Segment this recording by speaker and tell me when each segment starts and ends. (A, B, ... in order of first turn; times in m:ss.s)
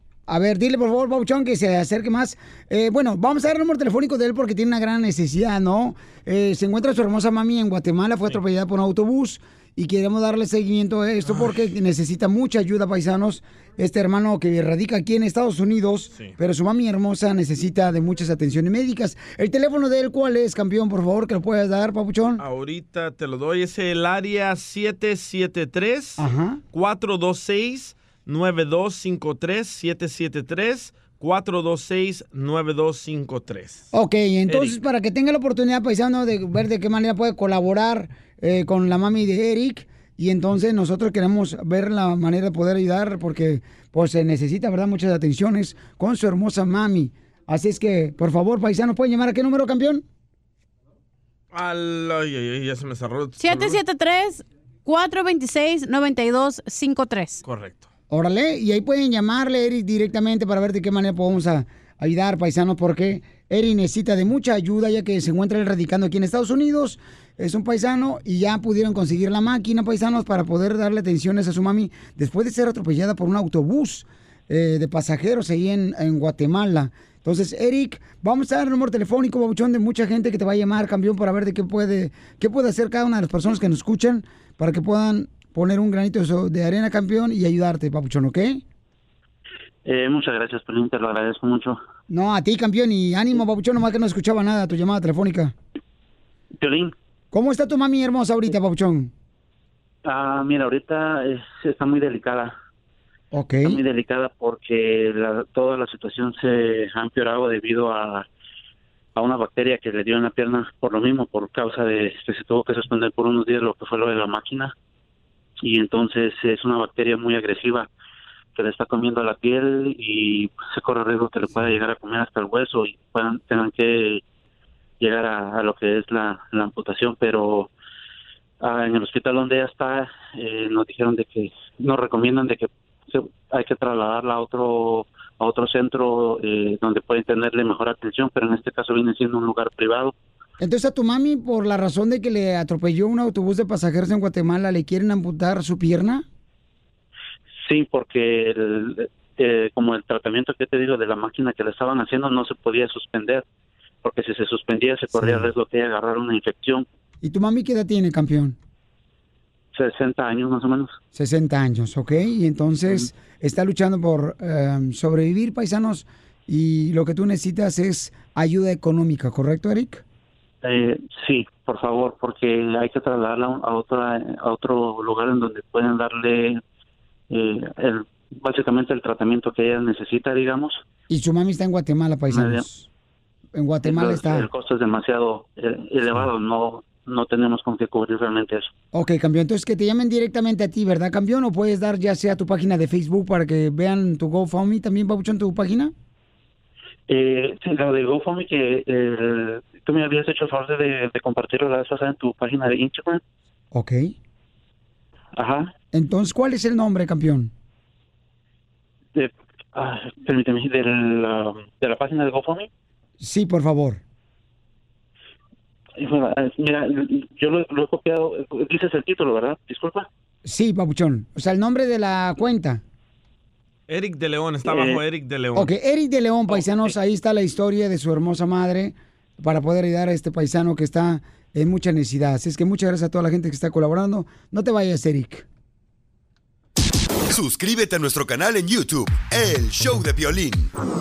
0:00.3-0:22.4 A
0:11.2-0:11.6 B
0:22.4-0:33.9 B
0:26.2-0:26.6 A
0:33.9-0:50.0 A
0:34.5-0:34.8 B
0:51.5-0:53.8 B
0:53.4-0:57.4 C
0:57.4-0:57.9 B
0:58.1-1:28.6 A
1:29.8-1:31.8 D
1:32.1-1:35.5 A
1:36.6-1:36.9 D
1:37.3-1:39.1 A
1:40.0-1:42.5 D
1:43.3-1:43.8 A
1:43.6-1:48.2 D
1:49.2-1:54.7 D
1:55.6-1:57.9 D
1:58.6-2:04.2 D
2:05.0-2:07.7 D
2:08.6-2:20.1 D
2:20.6-2:26.2 A
2:27.6-2:33.4 D
2:34.0-2:36.8 D
2:35.1-2:35.5 A
2:37.2-2:38.6 A
2:39.7-2:41.0 D
2:41.1-2:50.0 A
2:50.6-2:56.6 D
2:57.3-3:00.8 D
3:01.1-3:02.9 A
3:02.3-3:02.6 D
3:03.5-3:04.5 A
3:03.8-3:08.7 D
3:08.9-3:15.9 A
3:17.1-3:23.2 D
3:23.7-3:24.1 A
3:25.4-3:25.7 D
3:25.9-3:27.5 A
3:29.1-3:32.7 D
3:33.2-3:34.0 A
3:36.0-3:40.1 D
3:40.4-3:42.8 A
3:43.9-3:45.7 B
3:44.6-3:45.0 D
3:45.5-3:55.4 A
3:57.3-4:00.7 E